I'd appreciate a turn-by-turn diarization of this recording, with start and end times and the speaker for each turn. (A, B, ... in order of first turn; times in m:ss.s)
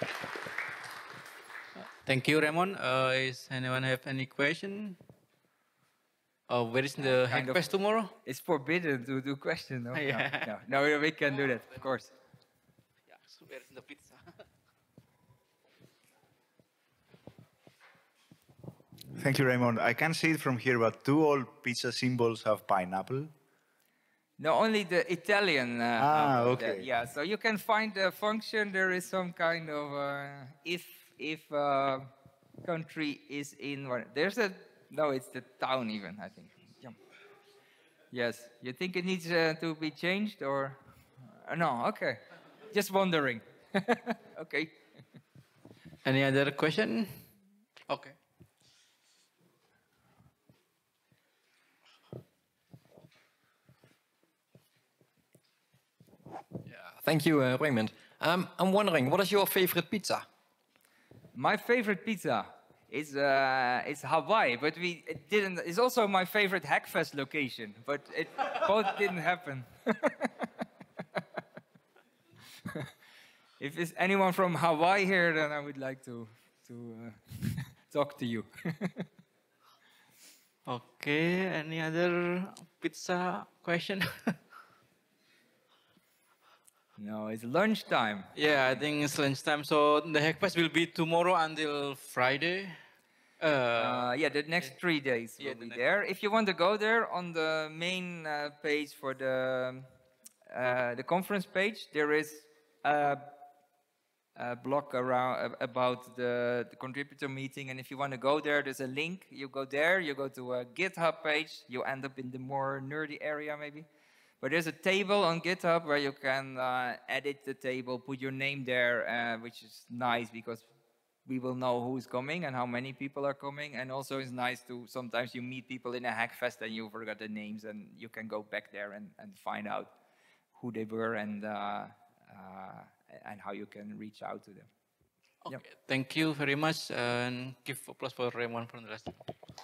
0:01.8-0:05.0 A
0:06.5-0:08.1 A
0:07.0-0:07.6 B
0:08.2-0:12.1 B
0:09.9-0:10.5 A
0:13.1-0:14.2 A
0:19.1-0:23.3 C
0:24.4-0:32.1 B
0:26.0-0:26.9 C
0:32.6-0:37.0 B
0:38.1-0:40.8 B
0:41.4-0:44.8 B
0:46.0-0:47.3 A
0:47.9-0:48.2 A
0:56.7-1:00.2 D
1:01.3-1:10.5 B
1:13.6-1:19.0 B
1:20.7-1:24.4 A
1:27.0-1:28.3 B
1:28.3-1:32.8 A
1:33.4-1:34.1 A
1:33.8-1:39.9 B
1:35.4-1:35.8 A
1:40.5-1:43.2 B
1:44.4-1:53.8 B
1:54.4-2:00.7 B
2:01.2-2:09.9 B
2:10.5-2:14.7 B
2:15.4-2:19.2 A